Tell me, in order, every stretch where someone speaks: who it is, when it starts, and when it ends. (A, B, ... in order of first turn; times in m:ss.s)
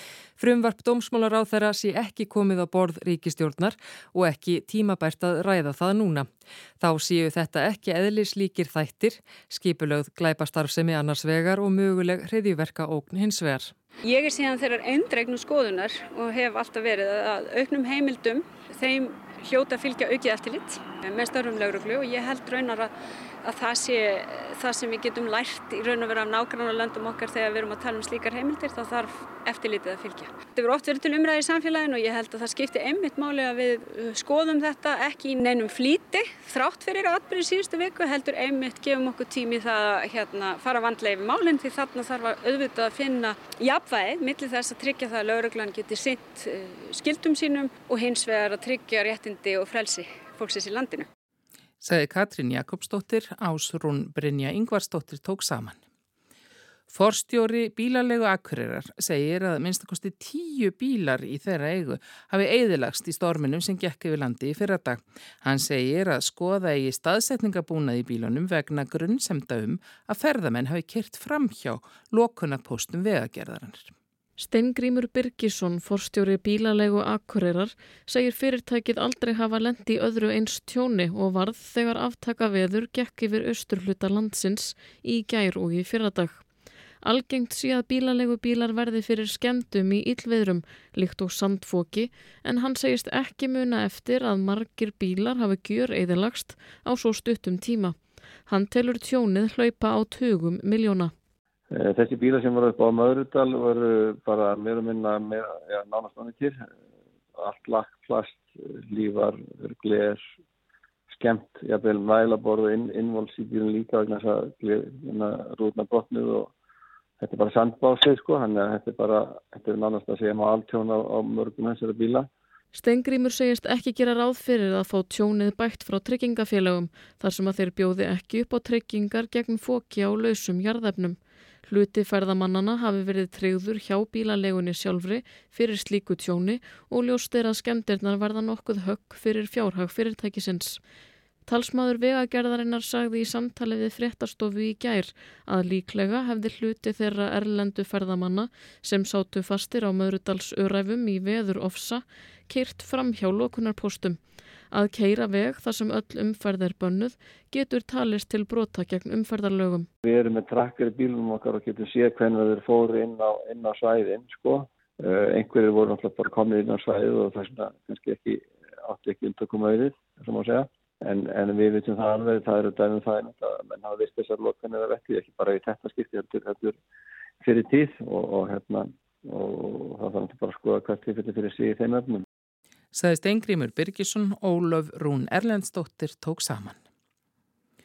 0:00.4-0:06.3 A
0:06.8-0:13.7 A
0:14.0-0:22.9 B
0:23.4-0:51.0 B
0:51.8-0:55.8 C
0:56.9-1:13.9 C
1:14.4-1:26.4 D
1:27.0-1:41.1 D
1:41.7-1:46.7 E
1:47.3-1:50.2 E
1:51.1-1:56.5 E
1:57.2-2:02.3 E
2:02.7-2:20.8 D
2:21.4-2:34.2 D
2:34.7-2:39.9 D
2:40.0-2:56.8 E
2:57.4-3:02.2 E
3:02.9-3:06.8 C